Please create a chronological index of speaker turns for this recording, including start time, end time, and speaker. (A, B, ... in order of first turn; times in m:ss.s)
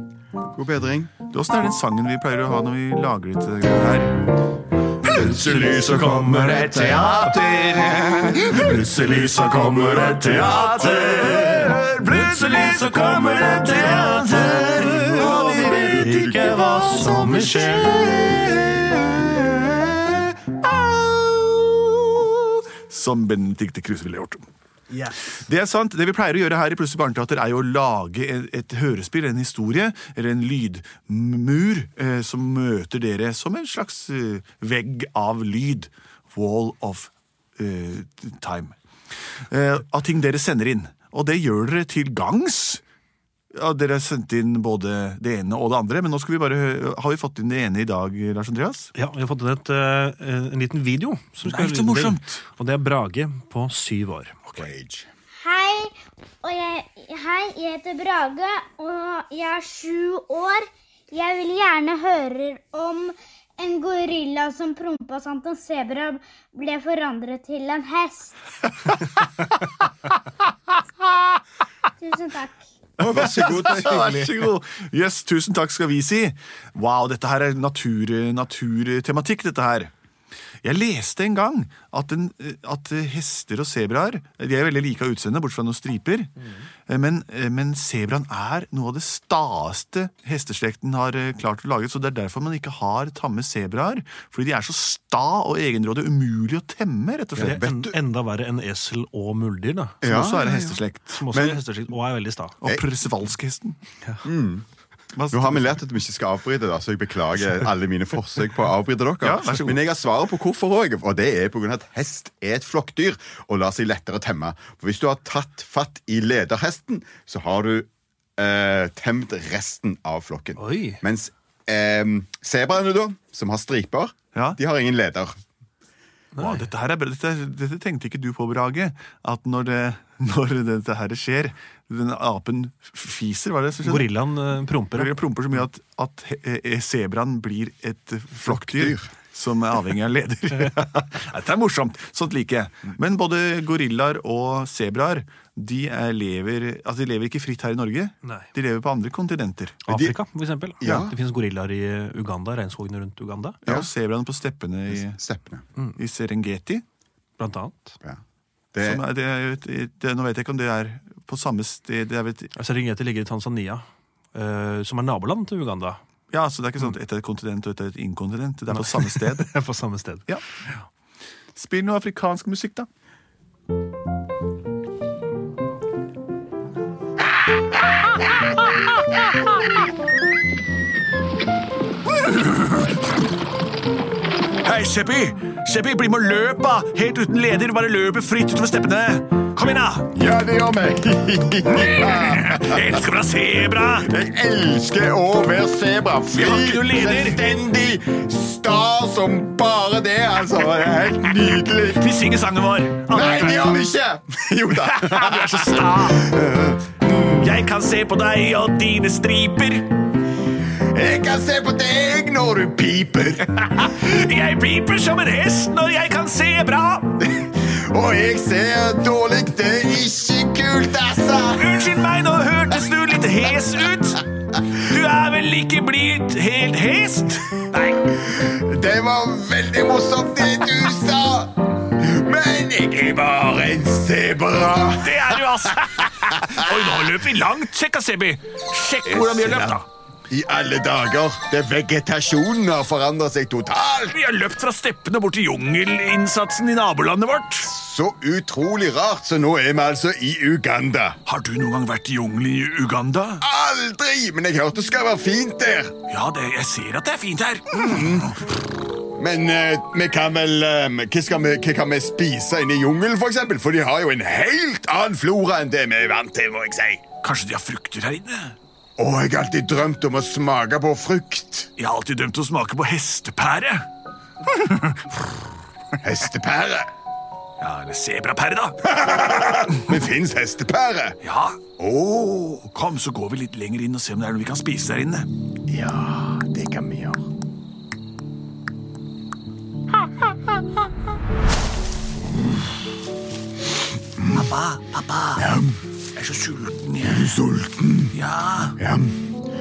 0:00.5-0:01.1 A
0:01.2-0:04.3 B
0:05.0-0:16.0 B
0:05.3-0:06.7 C
0:09.2-0:11.7 C
0:13.7-0:18.5 C
0:17.1-0:24.4 B
0:25.0-0:38.8 B
0:39.5-0:42.8 B
0:43.5-0:48.9 B
0:48.9-0:54.4 C
0:51.4-0:52.4 B
0:54.5-0:55.1 A
0:55.4-1:08.4 D
1:08.8-1:09.5 B
1:12.0-1:12.6 D
1:13.0-1:19.9 B
1:13.0-1:14.5 A
1:20.6-1:37.7 B
1:37.4-1:40.0 C
1:37.4-1:38.0 A
1:40.0-1:40.8 A
1:40.0-1:41.3 B
1:40.6-1:42.6 C
1:41.3-1:41.6 A
1:42.6-1:43.8 B
1:44.2-1:44.6 A
1:45.2-1:45.8 B
1:45.3-2:05.4 A
1:49.2-1:49.8 B
2:00.6-2:01.0 C
2:06.4-2:14.1 B
2:13.8-2:15.2 C
2:14.9-2:29.8 B
2:18.4-2:19.1 A
2:29.9-2:33.6 C
2:29.9-2:30.2 A
2:30.8-2:31.1 A
2:33.6-2:35.2 B
2:34.9-2:35.6 A
2:36.0-2:36.8 B
2:37.4-2:38.0 C
2:38.7-2:39.0 A
2:38.8-2:42.5 B
2:42.5-2:46.0 C
2:46.3-2:49.5 B
2:48.7-2:50.3 C
2:51.5-2:52.9 B
3:02.2-3:02.7 B
3:04.6-3:10.1 B
3:10.1-3:13.0 A
3:11.7-3:14.1 B
3:13.9-3:22.0 A
3:16.3-3:17.4 B
3:21.9-3:23.7 B
3:23.1-3:27.6 A
3:24.8-3:26.3 B
3:27.4-3:29.9 B
3:30.9-3:33.6 A
3:33.6-3:37.2 B
3:37.4-3:41.9 A
3:41.5-3:48.0 B
3:48.1-3:55.4 A
3:54.8-3:59.8 B
3:56.2-3:57.1 A
3:59.0-4:04.2 A
4:04.1-4:07.7 B
4:07.6-4:11.2 A
4:11.2-4:13.4 B
4:13.4-4:15.9 A
4:16.1-4:18.4 B
4:17.7-4:18.3 A
4:19.2-4:27.0 A
4:27.2-4:28.6 B
4:29.0-4:31.7 A
4:31.8-4:33.9 B
4:34.5-4:35.0 B
4:36.0-4:36.9 A
4:37.6-4:39.0 B
4:38.8-4:41.2 A
4:41.2-4:41.6 B
4:41.8-4:42.6 A
4:42.7-4:45.3 B
4:45.7-4:47.3 A
4:54.2-4:54.5 A
4:54.2-4:55.4 B
4:55.4-4:55.8 A
4:56.1-4:57.4 B
4:57.0-4:58.1 A
4:58.1-4:58.8 B
4:58.8-4:59.2 A